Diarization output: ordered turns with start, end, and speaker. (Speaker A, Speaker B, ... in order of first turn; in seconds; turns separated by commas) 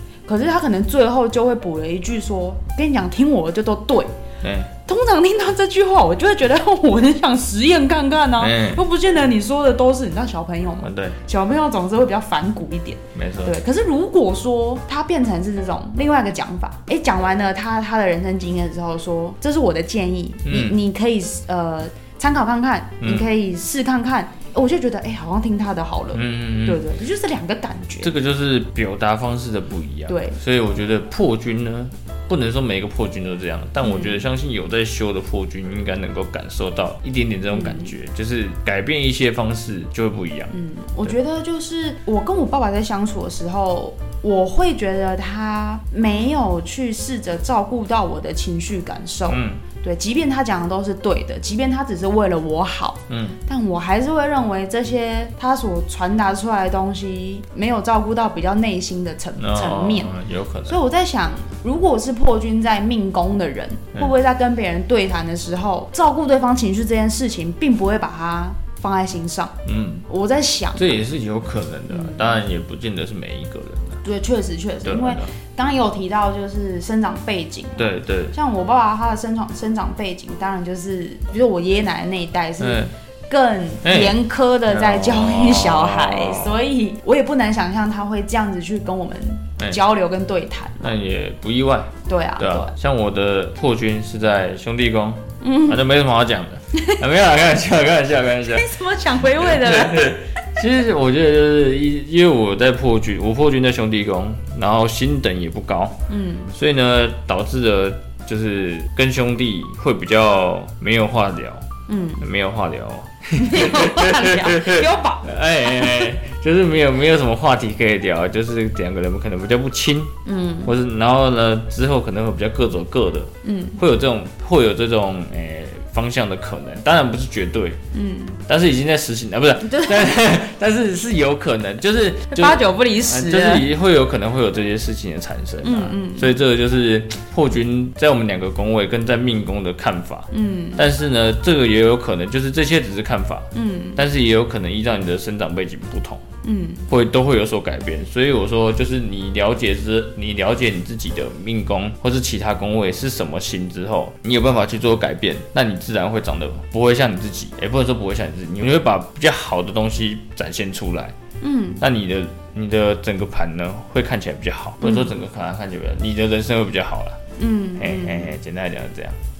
Speaker A: 0.2-4.1, Speaker B: 4.4-4.7, Speaker A: 4.8-28.1, Speaker B: 8.4-8.8, Speaker B: 10.8-11.2, Speaker B: 13.1-13.6, Speaker B: 20.4-20.8, Speaker B: 23.0-23.3, Speaker B: 26.1-26.8, Speaker B: 28.0-40.5, Speaker A: 30.1-30.4, Speaker A: 33.8-34.2, Speaker A: 37.5-37.9, Speaker A: 40.5-69.5, Speaker B: 49.3-49.6, Speaker B: 53.1-53.4, Speaker B: 59.4-60.8, Speaker B: 69.7-70.0, Speaker A: 70.1-71.0, Speaker B: 70.8-74.0, Speaker A: 71.9-72.4, Speaker A: 74.0-90.9, Speaker B: 74.8-75.3, Speaker B: 77.8-78.3, Speaker B: 82.6-82.9, Speaker B: 83.8-86.6, Speaker B: 90.8-98.7, Speaker A: 92.1-92.7, Speaker A: 95.4-95.8, Speaker A: 98.4-100.2, Speaker B: 99.3-106.0, Speaker A: 106.1-106.5, Speaker B: 106.5-111.7, Speaker A: 111.9-112.2, Speaker B: 112.2-127.8, Speaker A: 113.3-116.1, Speaker A: 120.2-120.7, Speaker A: 123.4-123.8, Speaker A: 127.9-128.4, Speaker B: 128.5-146.2, Speaker A: 129.6-130.1, Speaker A: 132.3-133.7, Speaker A: 135.6-136.3, Speaker A: 140.3-140.8, Speaker A: 143.5-144.0, Speaker A: 146.4-146.8, Speaker B: 146.9-161.1, Speaker A: 161.4-161.8, Speaker B: 161.8-167.2, Speaker A: 164.8-165.1, Speaker A: 167.4-168.3, Speaker B: 167.8-169.2